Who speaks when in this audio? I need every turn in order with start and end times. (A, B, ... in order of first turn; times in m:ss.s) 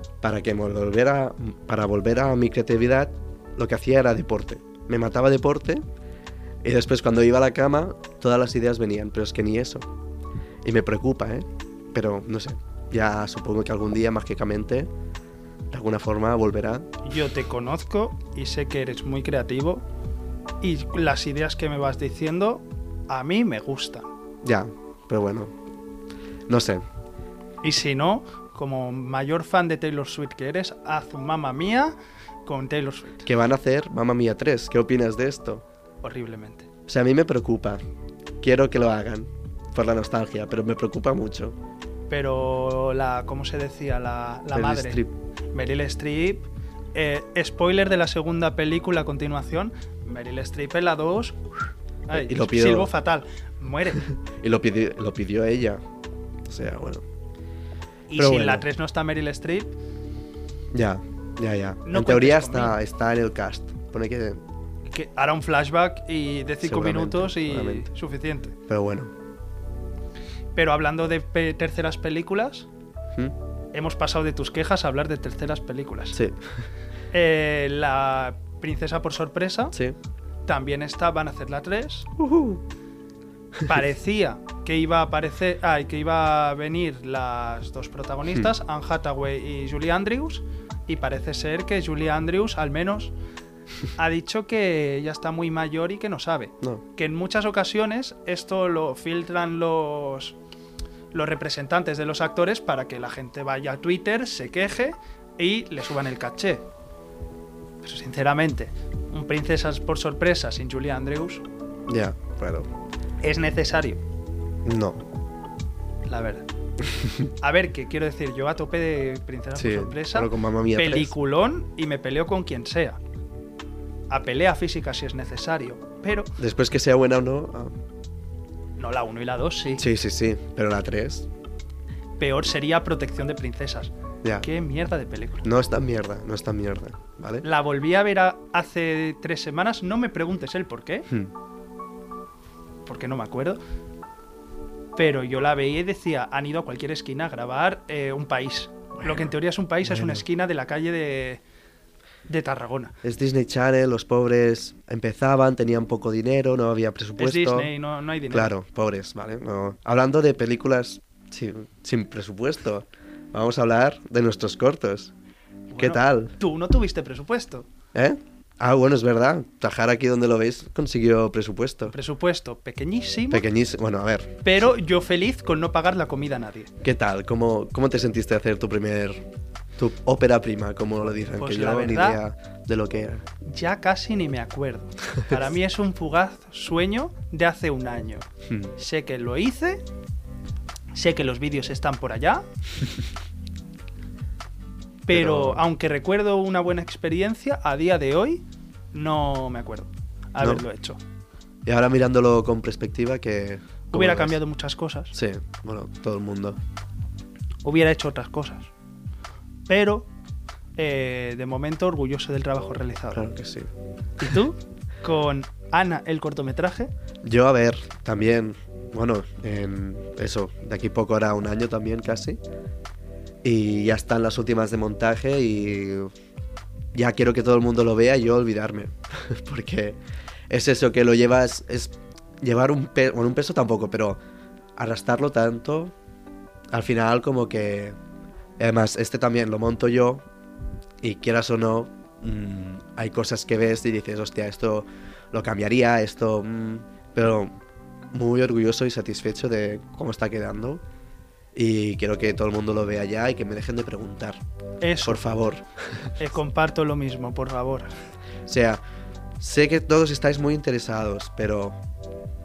0:00.2-0:05.8 A
0:06.6-0:09.9 A
0:10.6-0:14.9 A
0:15.7-0:16.9 A
0:17.0-0:19.8 B
0:20.6-0:24.1 B
0:24.4-0:25.6 A
0:26.5-0:26.8 A
0:27.6-0:33.3 B
0:33.3-0:35.6 A
0:36.0-0:36.7 B
0:36.9-0:37.8 A
0:38.4-0:41.6 A
0:42.1-0:45.0 B
0:44.5-0:45.2 A
0:45.5-0:51.4 B
0:52.1-0:54.1 B
0:52.1-0:52.9 A
0:54.1-0:55.8 A
0:56.5-0:57.0 A
0:58.1-0:59.7 B
0:58.2-0:58.7 A
1:00.7-1:04.4 A
1:01.8-1:02.8 B
1:04.9-1:08.6 B
1:06.6-1:07.9 A
1:08.7-1:09.1 A
1:10.6-1:12.7 B
1:13.7-1:16.2 B
1:16.1-1:16.6 A
1:17.1-1:19.8 B
1:20.5-1:22.1 B
1:22.2-1:22.6 A
1:23.7-1:33.1 B
1:34.0-1:40.4 B
1:41.1-1:46.7 B
1:47.8-1:51.4 B
1:51.9-1:52.7 A
1:53.2-1:54.0 B
1:54.6-1:55.0 A
1:56.1-1:56.5 B
1:57.0-1:57.3 A
1:57.4-2:03.0 B
1:59.6-2:01.2 A
2:04.1-2:06.3 B
2:06.4-2:07.8 A
2:08.8-2:09.8 B
2:09.8-2:11.3 A
2:12.2-2:15.4 B
2:15.4-2:17.4 A
2:17.4-2:21.1 B
2:22.9-2:23.6 B
2:25.0-2:31.4 B
2:29.0-2:29.3 A
2:29.8-2:30.2 A
2:32.3-2:33.0 B
2:33.0-2:37.7 A
2:37.2-2:38.5 B
2:38.3-2:45.1 A
2:45.7-2:47.7 B
2:45.8-2:46.3 A
2:47.9-2:51.9 A
2:51.9-2:53.4 B
2:53.3-2:54.7 A
2:54.4-2:56.7 B
2:56.8-2:59.2 A
2:59.8-3:03.2 A
3:01.4-3:02.2 B
3:03.4-3:09.8 B
3:08.5-3:08.7 A
3:10.9-3:12.5 B
3:15.0-3:21.0 B
3:15.1-3:15.6 A
3:21.6-3:24.4 A
3:23.9-3:25.2 B
3:25.1-3:26.6 A
3:27.6-3:28.7 B
3:29.7-3:30.1 B
3:30.8-3:33.3 B
3:33.1-3:33.7 A
3:34.2-3:36.9 B
3:37.2-3:42.4 A
3:43.4-3:46.1 A
3:46.9-3:50.0 A
3:50.5-3:54.2 A
3:54.8-3:55.9 A
3:56.7-3:58.0 A
3:58.6-4:00.3 A
4:01.0-4:07.6 A
4:08.1-4:10.8 A
4:11.6-4:14.4 A
4:14.8-4:15.3 B
4:15.0-4:16.2 A
4:16.2-4:17.9 B
4:18.5-4:18.8 A
4:19.4-4:21.8 A